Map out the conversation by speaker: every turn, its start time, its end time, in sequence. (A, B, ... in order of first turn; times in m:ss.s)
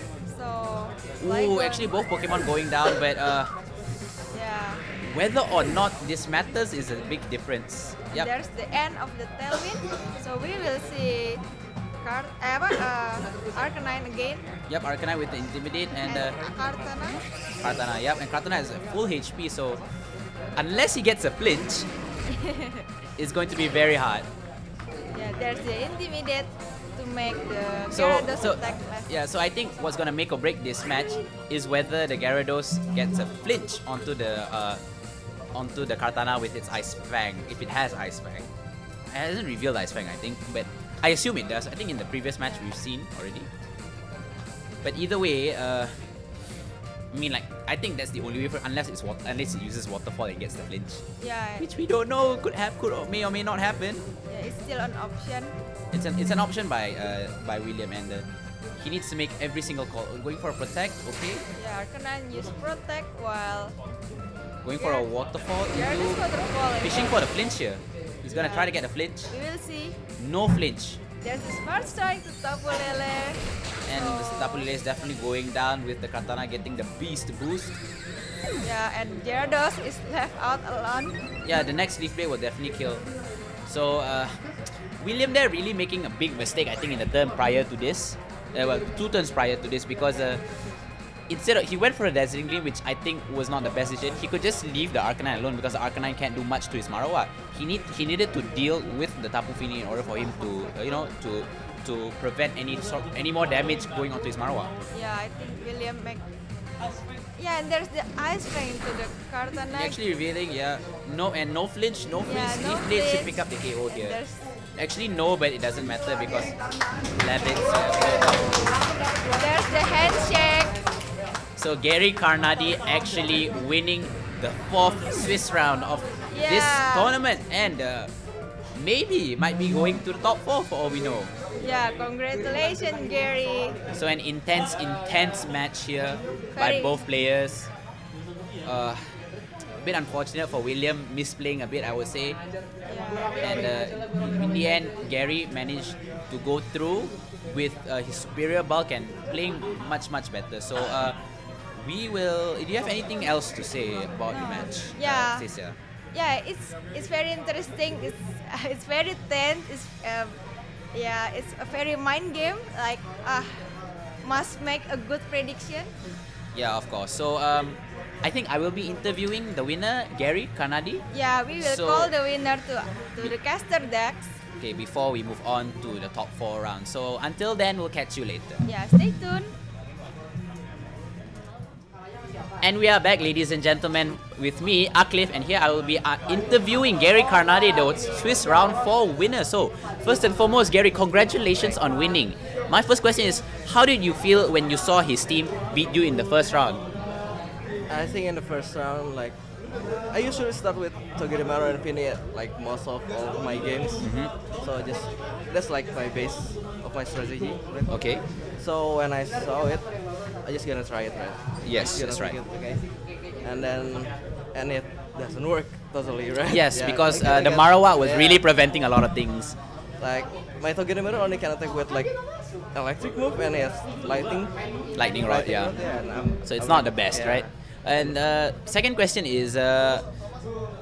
0:00.3-0:01.9 A
0:01.2-0:03.5 B
0:04.3-0:04.8 A
0:05.0-0:08.3 B
0:08.1-0:11.4 A
0:12.0-0:14.5 A
0:14.7-0:16.4 B
0:16.0-0:17.2 A
0:17.6-0:19.8 B
0:20.6-0:21.9 B
0:22.3-0:22.8 A
0:23.2-0:24.3 B
0:25.1-0:29.1 A
0:27.9-0:34.8 B
0:35.5-0:38.5 B
0:39.1-0:43.5 B
0:44.8-0:46.0 B
0:47.1-0:51.0 B
0:51.2-0:51.7 A
0:51.6-0:54.0 B
0:54.3-0:55.6 A
0:55.9-0:58.3 B
0:58.8-1:01.5 B
1:01.6-1:03.8 A
1:04.6-1:06.2 B
1:04.8-1:05.1 A
1:05.7-1:07.2 A
1:06.8-1:09.3 B
1:08.3-1:08.7 A
1:09.3-1:10.0 A
1:10.2-1:11.0 B
1:11.2-1:13.4 A
1:13.9-1:17.8 B
1:14.0-1:14.7 A
1:18.6-1:21.2 A
1:21.4-1:23.0 B
1:23.7-1:24.5 B
1:25.0-1:30.4 B
1:31.3-1:44.7 B
1:44.9-1:46.2 A
1:47.4-1:50.0 A
1:49.7-1:54.2 B
1:52.2-1:54.4 A
1:54.8-1:56.6 B
1:57.1-1:58.7 B
1:59.4-2:00.8 A
2:01.6-2:08.1 B
2:06.3-2:07.2 A
2:08.7-2:11.3 B
2:11.6-2:13.8 A
2:13.9-2:17.7 B
2:16.5-2:17.0 A
2:18.6-2:19.2 B
2:19.8-2:22.4 B
2:22.9-2:23.4 A
2:23.4-2:31.2 B
2:31.8-2:35.8 B
2:34.3-2:35.4 A
2:36.1-2:40.4 A
2:40.9-2:43.7 A
2:44.2-2:45.9 A
2:46.5-2:51.1 B
2:51.1-2:54.3 A
2:51.6-2:52.1 B
2:54.6-2:58.6 B
2:58.6-2:59.5 A
3:02.6-3:16.8 B
3:17.9-3:38.4 C
3:24.0-3:24.3 B
3:27.9-3:28.2 B
3:31.6-3:32.4 B
3:36.5-3:39.6 B
3:40.0-3:47.5 C
3:45.0-3:45.8 B
3:46.4-3:50.0 B